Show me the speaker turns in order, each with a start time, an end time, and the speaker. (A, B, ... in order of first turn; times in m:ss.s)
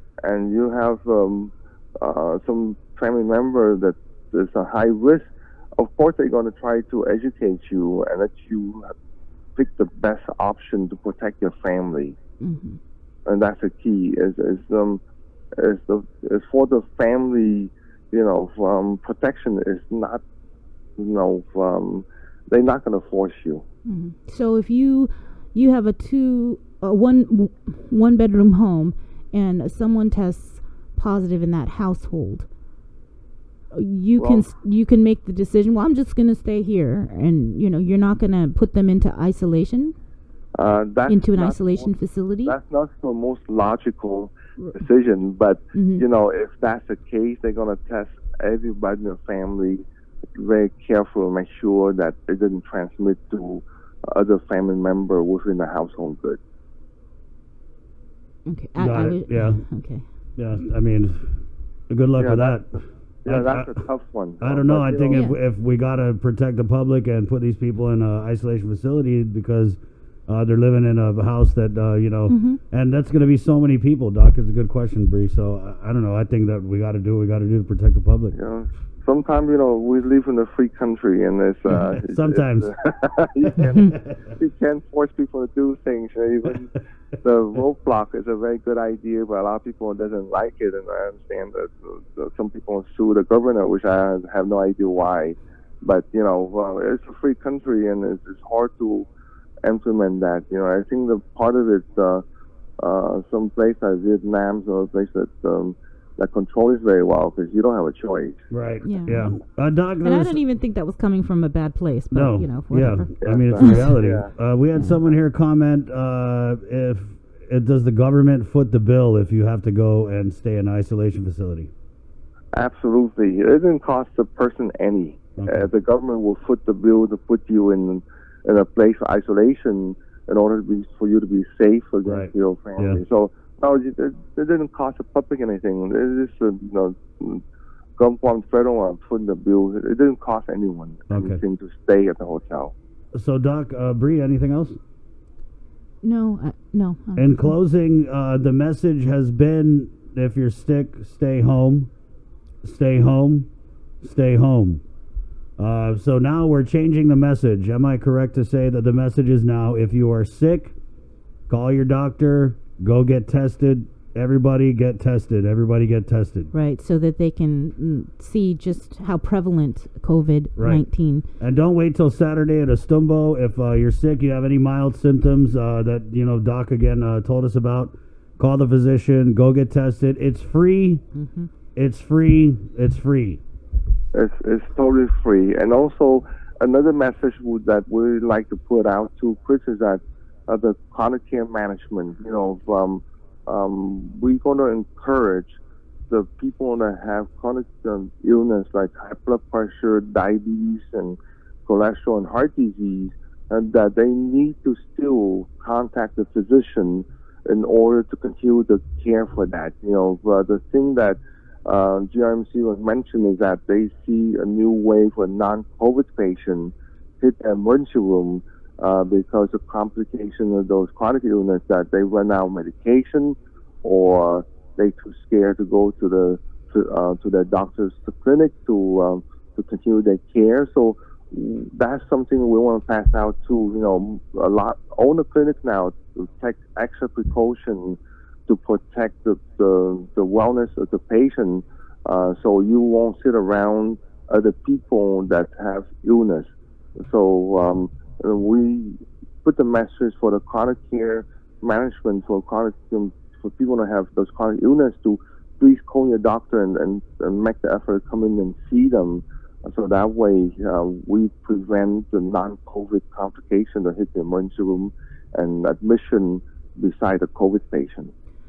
0:00.2-0:08.9 A
0:09.6-0:12.2 A
0:12.4-0:12.8 B
0:13.2-0:15.0 A
0:15.5-0:20.2 A
0:21.0-0:23.6 A
0:23.8-0:32.5 B
0:33.7-0:40.0 B
0:34.2-0:34.5 A
0:40.5-0:41.9 A
0:41.1-0:42.6 B
0:42.4-0:56.4 A
0:45.7-0:46.0 B
0:58.4-1:00.0 B
0:58.8-0:59.6 C
1:00.4-1:03.8 C
1:02.2-1:05.2 A
1:04.4-1:18.4 C
1:05.1-1:05.4 B
1:12.3-1:12.6 B
1:18.3-1:39.1 A
1:21.7-1:22.7 C
1:23.4-1:24.3 C
1:39.6-1:42.2 A
1:42.8-1:48.4 A
1:48.5-1:50.4 C
1:48.8-1:49.3 B
1:50.0-1:53.9 B
1:52.1-2:01.7 C
1:53.2-1:54.3 A
2:02.5-2:17.4 A
2:05.4-2:05.7 C
2:12.0-2:13.0 C
2:18.0-2:22.7 A
2:21.1-2:21.4 C
2:23.1-2:24.8 C
2:26.0-2:27.5 B
2:27.2-2:31.9 C
2:32.6-2:33.5 C
2:34.0-2:34.8 C
2:35.6-2:40.7 C
2:41.5-2:46.5 C
2:46.5-2:51.2 B
2:50.6-2:50.8 C
2:51.4-3:01.0 C
3:01.1-3:01.5 B
3:01.8-3:03.4 C
3:04.1-3:15.6 A
3:16.1-4:28.1 A